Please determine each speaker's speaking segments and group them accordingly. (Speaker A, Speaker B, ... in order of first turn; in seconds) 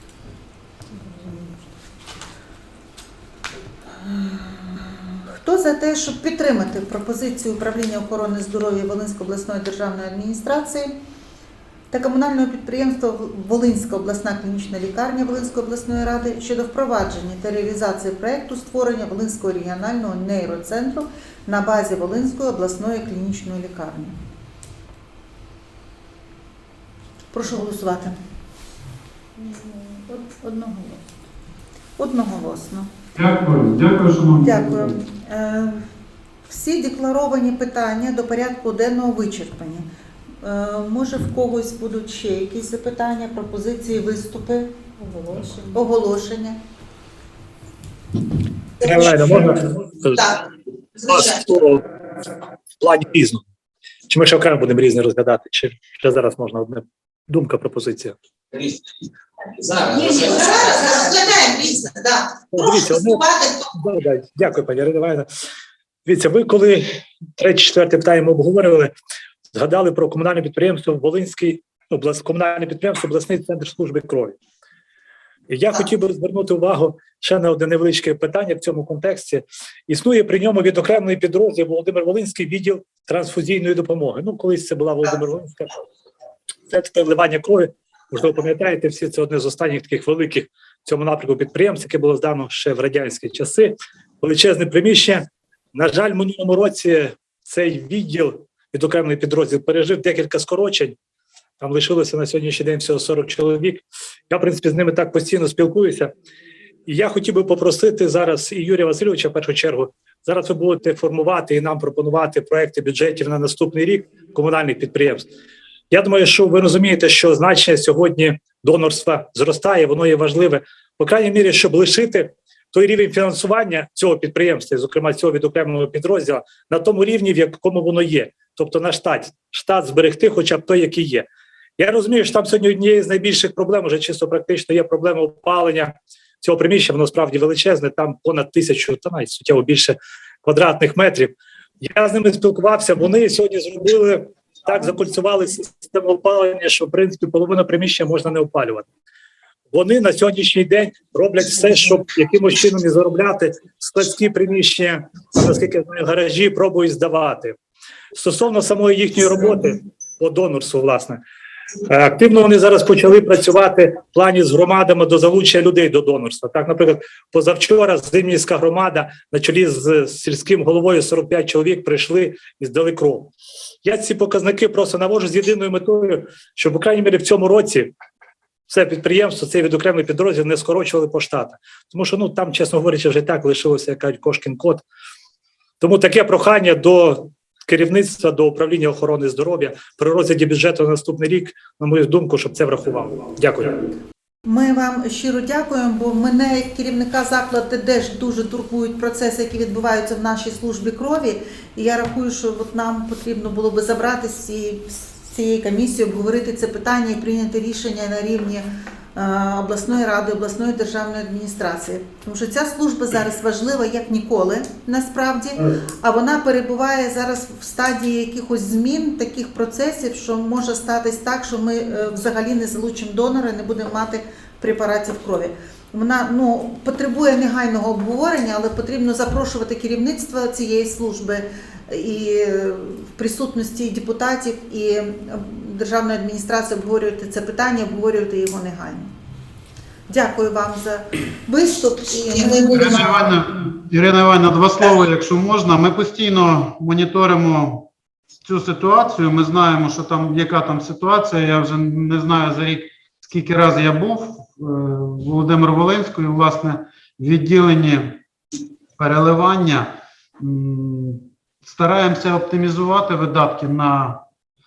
Speaker A: 0.9-1.6, 29.4-31.0, 45.0-45.5
Speaker B: 4.0-10.9, 11.9-24.2, 27.3-28.2, 32.0-32.9, 34.4-35.8, 36.5-39.9, 40.4-44.7, 45.7-46.6, 194.4-239.1, 240.1-243.1
Speaker C: 33.1-35.0, 242.7-247.9, 248.4-258.2, 259.0-264.2
Speaker D: 48.8-50.3, 51.1-51.8, 52.8-53.4, 54.1-58.2, 62.5-65.3, 66.1-68.9, 69.5-74.4, 75.5-85.7, 86.7-101.0, 101.6-106.1, 106.9-115.3, 115.9-148.9, 149.7-157.6, 158.1-161.2, 161.9-173.3, 173.8-177.9, 178.7-184.8, 185.8-194.0
Speaker E: 48.8-50.4, 51.0-51.5, 59.7-63.7, 242.3-243.3